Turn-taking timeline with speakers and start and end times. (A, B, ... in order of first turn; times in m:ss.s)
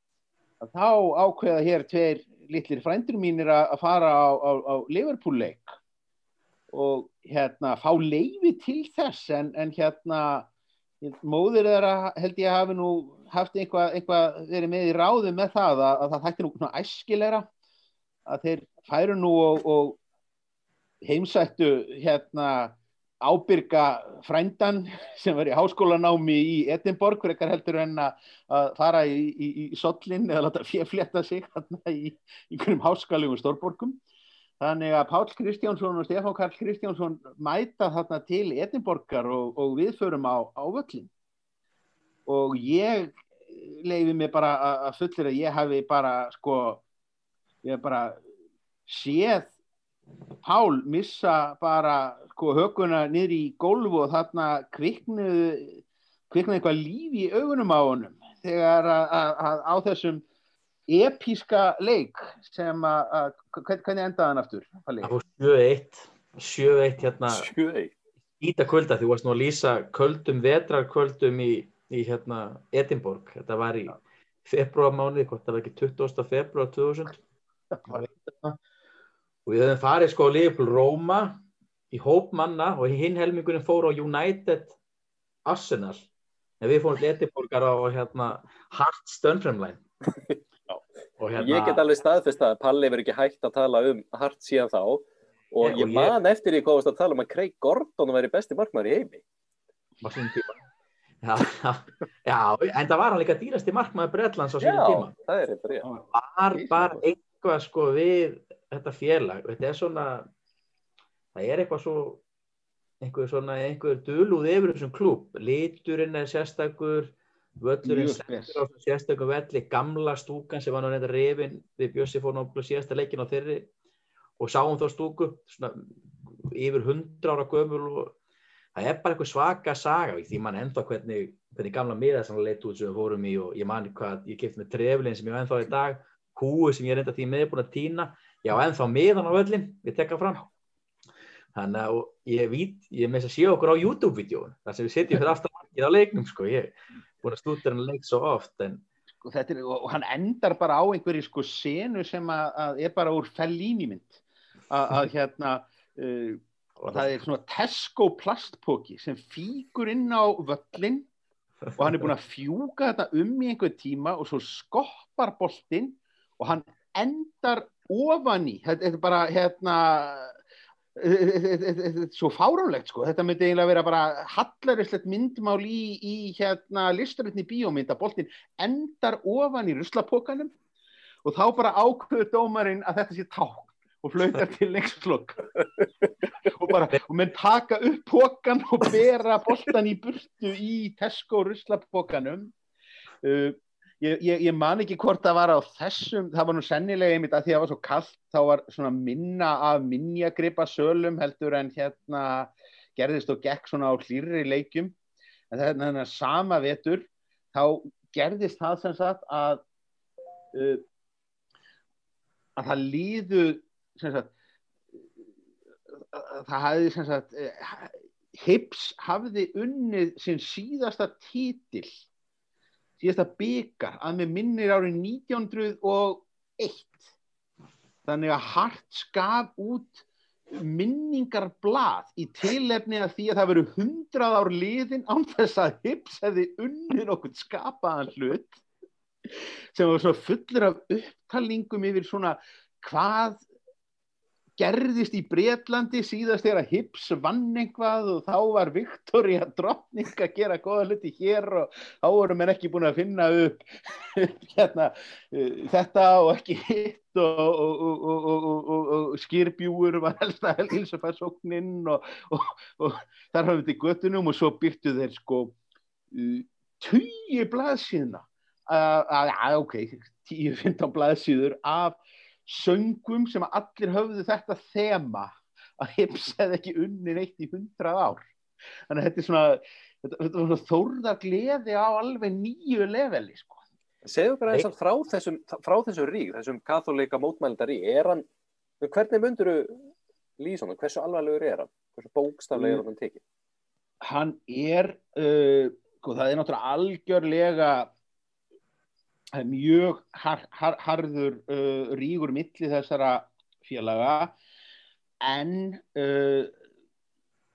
0:00.6-0:05.8 A
0:06.7-0:10.5 A
0:11.0-0:17.5 A
0:18.3-0:20.0 A
0:21.0-0:34.0 A
0:34.6-0:41.1 A
0:42.3-0:46.8 A
0:47.6-0:48.2 A
0:48.9-0:49.6 A
0:50.4-1:00.2 A
1:00.9-1:05.1 A
1:05.0-1:07.5 B
1:07.3-1:07.9 C
1:08.4-1:17.2 B
1:17.8-1:18.5 B
1:19.4-1:24.8 B
1:25.4-1:26.1 B
1:26.6-1:29.8 B
1:31.2-1:31.8 B
1:31.4-1:39.2 C
1:35.6-1:36.1 B
1:40.0-1:40.6 B
1:41.2-1:45.1 B
1:44.6-1:45.9 C
1:45.8-1:46.7 A
1:46.1-1:50.3 B
1:51.3-1:52.2 B
1:53.0-2:03.7 B
1:57.8-1:58.6 A
2:04.4-2:08.2 B
2:08.7-2:20.5 B
2:21.5-2:28.8 B
2:29.2-2:41.1 A
2:36.8-2:37.2 B
2:41.8-2:50.4 A
2:51.0-3:00.5 A
3:01.2-3:05.5 A
3:06.4-3:12.5 A
3:13.2-3:24.9 A
3:25.5-3:29.6 A
3:30.5-3:30.8 A
3:32.6-3:34.3 A
3:36.0-3:42.0 A
3:43.0-3:47.1 A
3:48.0-3:58.6 A
3:59.7-4:03.4 A
4:04.6-4:25.6 A
4:26.1-4:38.3 A
4:38.9-4:43.6 A
4:44.0-4:48.2 C
4:48.8-4:49.8 C
4:50.4-4:53.2 C
4:52.5-4:52.8 A
4:54.0-4:57.9 A
4:59.4-5:04.3 A
5:05.2-5:06.5 A